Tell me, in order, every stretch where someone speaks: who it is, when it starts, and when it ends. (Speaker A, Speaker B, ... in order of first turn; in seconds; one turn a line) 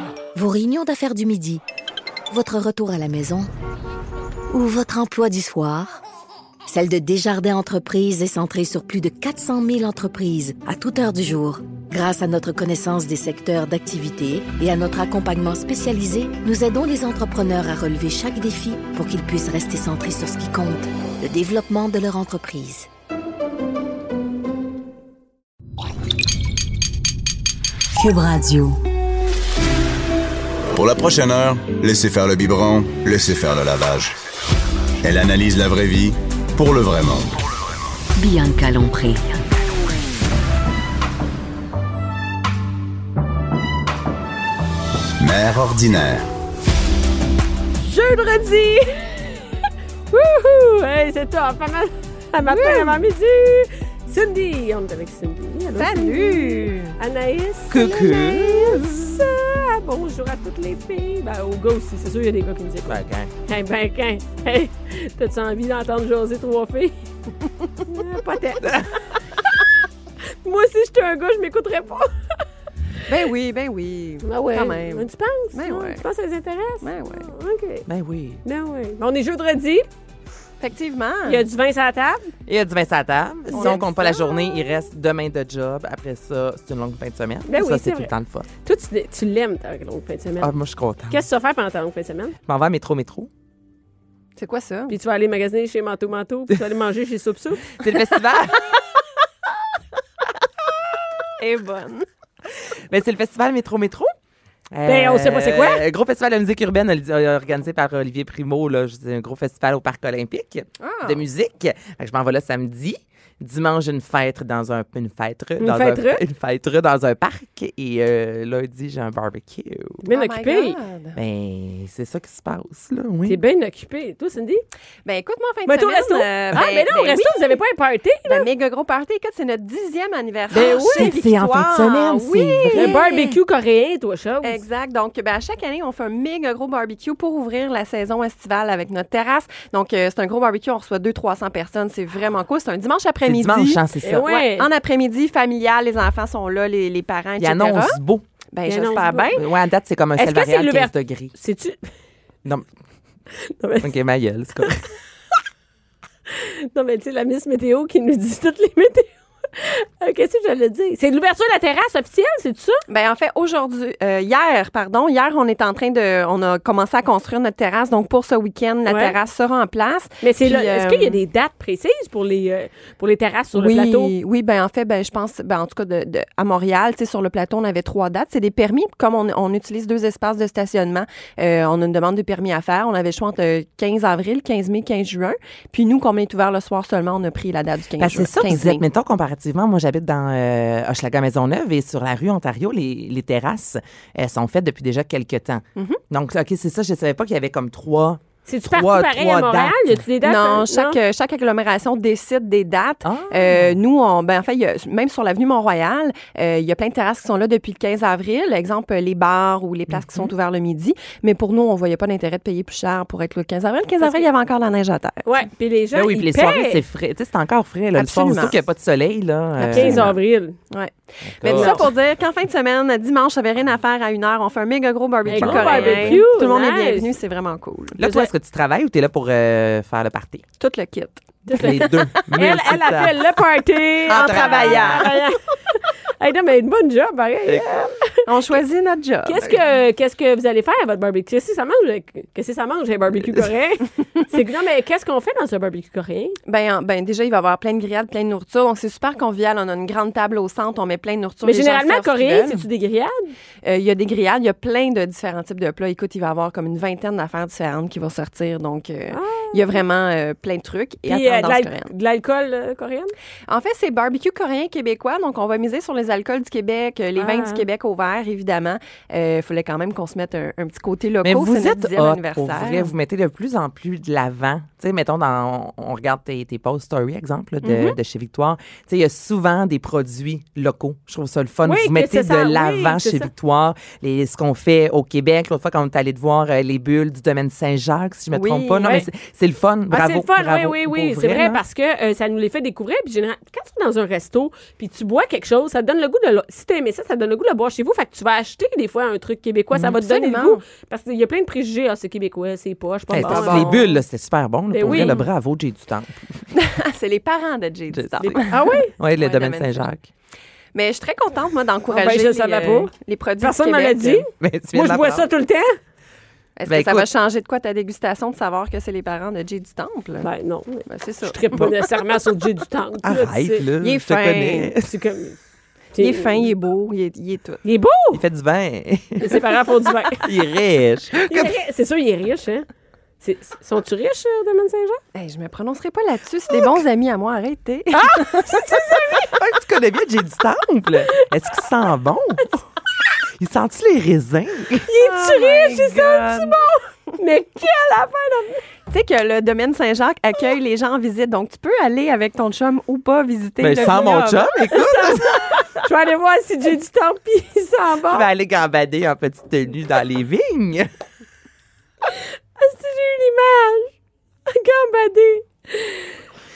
Speaker A: 0.3-1.6
Speaker A: 2.3-3.5
Speaker A: 4.5-6.0
Speaker A: 6.7-22.9
Speaker A: 28.0-28.8
Speaker B: 30.7-34.1
Speaker B: 35.0-37.4
Speaker A: 38.2-39.4
Speaker B: 45.2-46.2
Speaker C: 47.8-49.3
Speaker C: 50.1-66.9
Speaker D: 52.4-53.0
Speaker D: 55.7-57.0
Speaker E: 57.7-59.3
Speaker E: 62.8-63.3
Speaker C: 67.9-69.2
Speaker C: 70.4-72.1
Speaker D: 73.1-76.0
Speaker C: 74.2-77.8
Speaker D: 76.8-77.3
Speaker E: 77.8-78.4
Speaker C: 78.4-79.9
Speaker D: 80.6-81.4
Speaker C: 81.2-82.3
Speaker E: 82.5-88.5
Speaker D: 83.5-84.2
Speaker C: 83.5-83.8
Speaker C: 87.5-88.1
Speaker C: 88.6-90.5
Speaker E: 90.4-91.2
Speaker C: 91.1-92.3
Speaker E: 92.5-93.3
Speaker D: 94.4-94.9
Speaker C: 94.9-97.8
Speaker E: 97.7-98.7
Speaker D: 101.4-102.0
Speaker E: 102.7-104.1
Speaker E: 104.7-120.0
Speaker C: 104.8-105.8
Speaker D: 110.8-111.2
Speaker C: 115.6-116.2
Speaker C: 120.0-120.8
Speaker D: 120.1-121.2
Speaker E: 121.1-123.4
Speaker C: 123.2-124.6
Speaker D: 125.0-127.6
Speaker C: 125.7-128.4
Speaker D: 128.2-133.3
Speaker C: 130.5-131.1
Speaker E: 130.5-133.1
Speaker C: 132.7-134.6
Speaker D: 134.4-148.0
Speaker E: 143.2-144.3
Speaker C: 144.0-144.7
Speaker E: 147.4-148.2
Speaker D: 148.5-149.4
Speaker C: 148.7-149.4
Speaker E: 149.3-151.3
Speaker C: 150.2-151.9
Speaker C: 153.4-153.9
Speaker E: 153.8-154.9
Speaker C: 156.3-162.8
Speaker D: 162.9-171.2
Speaker C: 168.8-169.1
Speaker C: 170.2-174.1
Speaker D: 173.5-188.8
Speaker E: 188.0-199.9
Speaker C: 198.5-201.0
Speaker D: 200.2-215.3
Speaker E: 203.0-203.8
Speaker E: 209.9-210.3
Speaker C: 214.0-214.2
Speaker C: 215.2-216.8
Speaker E: 215.9-220.1
Speaker D: 217.9-218.6
Speaker D: 219.6-220.2
Speaker C: 219.6-220.6
Speaker D: 220.7-228.0
Speaker E: 221.2-221.9
Speaker C: 221.4-221.9
Speaker C: 225.3-227.1
Speaker E: 225.3-226.2
Speaker E: 228.0-230.4
Speaker C: 228.0-228.3
Speaker D: 230.6-232.2
Speaker C: 231.5-238.3
Speaker E: 231.6-233.3
Speaker E: 234.0-235.1
Speaker D: 234.1-235.2
Speaker D: 238.2-239.6
Speaker C: 239.2-246.4
Speaker D: 246.5-252.6
Speaker C: 251.4-253.3
Speaker D: 253.6-261.9
Speaker C: 259.1-259.8
Speaker C: 261.1-263.1
Speaker D: 263.5-272.9
Speaker C: 267.2-267.6
Speaker E: 271.2-291.6
Speaker D: 277.6-277.9
Speaker C: 281.6-283.3
Speaker D: 288.3-289.0
Speaker C: 289.9-303.9
Speaker D: 299.9-300.6
Speaker E: 303.1-306.4
Speaker D: 303.1-303.9
Speaker C: 304.7-305.3
Speaker D: 304.9-305.1
Speaker D: 306.5-308.6
Speaker E: 307.9-310.1
Speaker C: 308.5-308.9
Speaker D: 309.1-309.8
Speaker D: 310.7-314.2
Speaker C: 311.9-315.8
Speaker E: 314.4-315.2
Speaker D: 316.6-320.3
Speaker E: 316.7-317.1
Speaker C: 320.2-323.7
Speaker D: 320.9-321.7
Speaker E: 323.0-324.9
Speaker D: 323.8-324.7
Speaker C: 324.8-325.4
Speaker C: 325.9-326.4
Speaker D: 326.0-327.6
Speaker C: 327.6-328.2
Speaker E: 328.1-329.4
Speaker C: 329.2-330.3
Speaker E: 330.2-331.6
Speaker C: 331.3-332.7
Speaker C: 333.2-335.0
Speaker D: 335.1-338.6
Speaker C: 338.0-339.3
Speaker E: 338.7-342.6
Speaker E: 343.4-344.9
Speaker C: 344.9-348.6
Speaker D: 345.0-346.6
Speaker D: 348.9-354.9
Speaker E: 353.6-355.6
Speaker C: 354.7-358.3
Speaker E: 358.1-360.9
Speaker C: 362.0-363.9
Speaker C: 364.5-366.2